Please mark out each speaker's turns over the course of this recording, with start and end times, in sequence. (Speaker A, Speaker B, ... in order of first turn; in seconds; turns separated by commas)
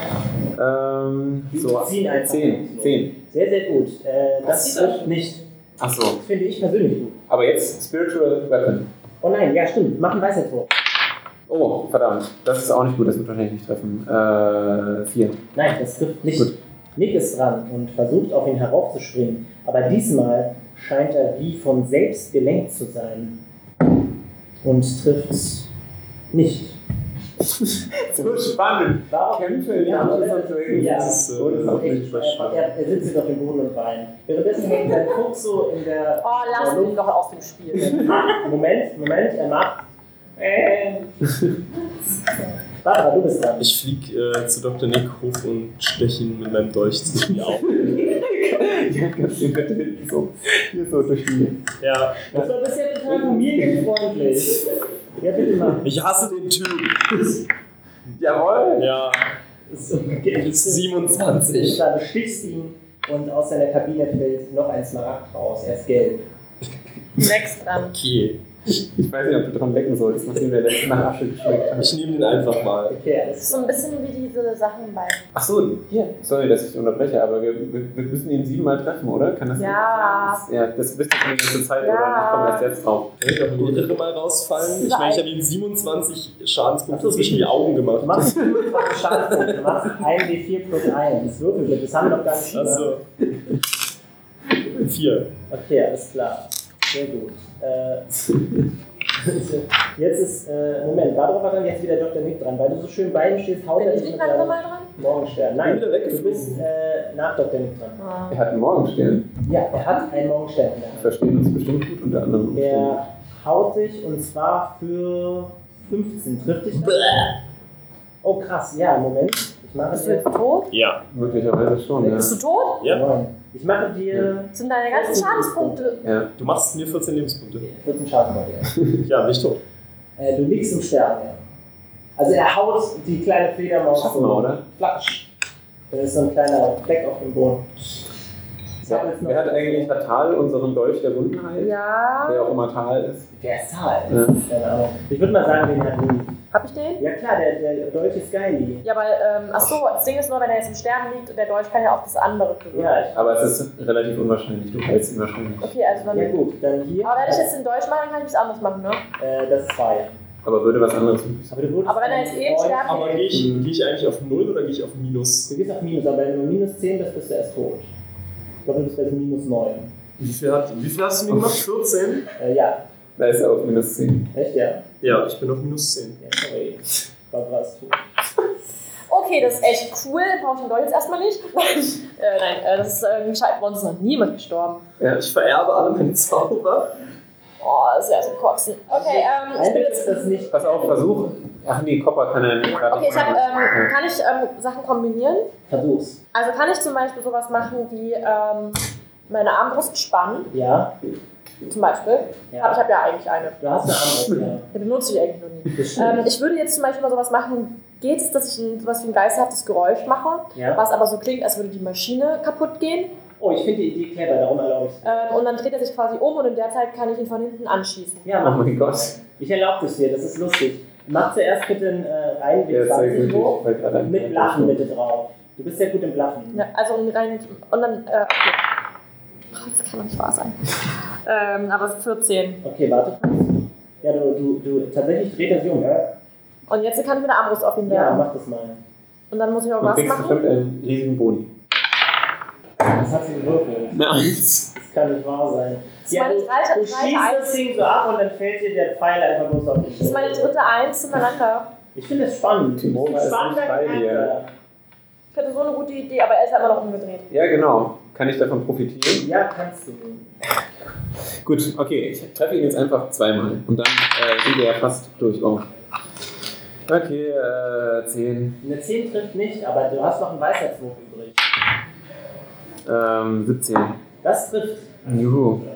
Speaker A: 0.5-3.1, Speaker B: 1.5-5.4, Speaker C: 4.5-5.0, Speaker A: 5.8-6.2, Speaker B: 6.2-7.2, Speaker A: 7.3-8.9, Speaker B: 9.2-10.7, Speaker A: 11.5-15.4, Speaker B: 15.5-23.4, Speaker B: 24.6-25.7, Speaker B: 26.3-26.8, Speaker A: 27.6-32.3, Speaker B: 29.1-37.0, Speaker D: 30.7-32.7, Speaker C: 36.2-38.2, Speaker B: 38.0-39.8, Speaker B: 40.4-41.1, Speaker B: 42.8-43.7, Speaker D: 43.6-48.0, Speaker A: 47.4-51.6, Speaker D: 51.8-52.3, Speaker B: 52.3-54.6, Speaker A: 53.1-53.9, Speaker B: 55.2-55.9, Speaker D: 55.8-57.4, Speaker A: 58.1-58.9, Speaker D: 58.8-59.2, Speaker B: 59.7-66.2, Speaker D: 60.4-61.8, Speaker C: 67.2-67.9, Speaker D: 67.8-68.4, Speaker A: 68.7-72.0, Speaker D: 71.8-73.0, Speaker B: 72.9-73.8, Speaker C: 73.5-75.2, Speaker A: 75.3-83.9, Speaker C: 79.5-80.4, Speaker C: 81.8-82.7, Speaker D: 83.2-88.4, Speaker C: 84.6-85.2, Speaker B: 86.9-93.0, Speaker A: 88.6-88.9, Speaker D: 92.5-93.0, Speaker D: 94.8-95.3, Speaker B: 95.5-98.1, Speaker B: 99.2-108.0, Speaker C: 103.8-104.9, Speaker D: 105.6-106.7, Speaker C: 108.0-108.4, Speaker A: 108.3-109.3, Speaker B: 109.5-111.1, Speaker A: 111.0-113.0, Speaker B: 112.5-117.3, Speaker D: 116.8-117.3, Speaker B: 118.2-120.3, Speaker C: 119.9-120.7, Speaker D: 120.7-121.0, Speaker A: 121.1-122.3, Speaker B: 122.0-126.0, Speaker C: 122.0-122.8, Speaker C: 124.5-126.0, Speaker A: 126.0-126.3, Speaker D: 126.4-127.7, Speaker B: 127.7-128.8, Speaker D: 129.0-129.6, Speaker B: 130.2-131.4, Speaker B: 132.2-135.2, Speaker A: 133.9-134.6, Speaker B: 135.9-138.0, Speaker A: 138.8-143.3, Speaker B: 138.8-139.9, Speaker C: 141.6-142.5, Speaker B: 143.3-146.3, Speaker A: 144.1-144.4, Speaker C: 146.5-147.0, Speaker B: 147.0-148.8, Speaker C: 148.8-153.0, Speaker B: 152.7-153.6, Speaker A: 153.1-156.0, Speaker C: 155.6-156.4, Speaker B: 156.1-157.5, Speaker C: 157.0-159.0, Speaker B: 159.2-160.2, Speaker A: 160.4-161.8, Speaker B: 161.5-163.6, Speaker C: 161.8-163.2, Speaker D: 162.8-165.5, Speaker A: 163.3-163.7, Speaker B: 165.5-167.9, Speaker B: 168.6-169.9, Speaker D: 170.2-172.2, Speaker B: 172.4-172.8, Speaker A: 173.2-174.3, Speaker B: 174.3-174.8, Speaker D: 175.0-176.2, Speaker B: 176.2-178.0, Speaker C: 179.1-184.8, Speaker D: 185.0-186.9, Speaker C: 187.6-190.3, Speaker B: 188.9-191.3, Speaker A: 190.5-193.9, Speaker C: 192.9-195.5, Speaker B: 195.7-196.2, Speaker C: 196.3-200.5, Speaker B: 200.5-200.9, Speaker C: 201.6-203.6, Speaker B: 202.5-202.8, Speaker B: 203.6-204.7, Speaker C: 204.7-213.1, Speaker B: 205.7-206.3, Speaker B: 210.5-210.8, Speaker B: 213.4-215.3, Speaker C: 215.0-218.3, Speaker B: 218.2-226.6, Speaker A: 218.4-219.1, Speaker A: 222.7-224.9, Speaker C: 226.5-228.6, Speaker C: 229.5-230.7, Speaker C: 231.2-232.6, Speaker B: 232.6-236.2, Speaker C: 236.7-238.3, Speaker B: 237.9-238.8, Speaker C: 239.3-240.4, Speaker A: 239.8-241.5, Speaker B: 242.8-244.0, Speaker A: 243.9-244.7, Speaker B: 244.7-250.5, Speaker C: 246.1-247.6, Speaker C: 249.9-251.7, Speaker B: 251.9-254.5, Speaker A: 252.8-254.3, Speaker C: 255.3-257.3, Speaker A: 257.3-259.3, Speaker B: 259.2-260.3, Speaker A: 261.4-265.7, Speaker A: 266.9-268.6, Speaker B: 268.6-271.4, Speaker A: 272.8-274.0, Speaker B: 274.2-275.1, Speaker A: 275.0-275.6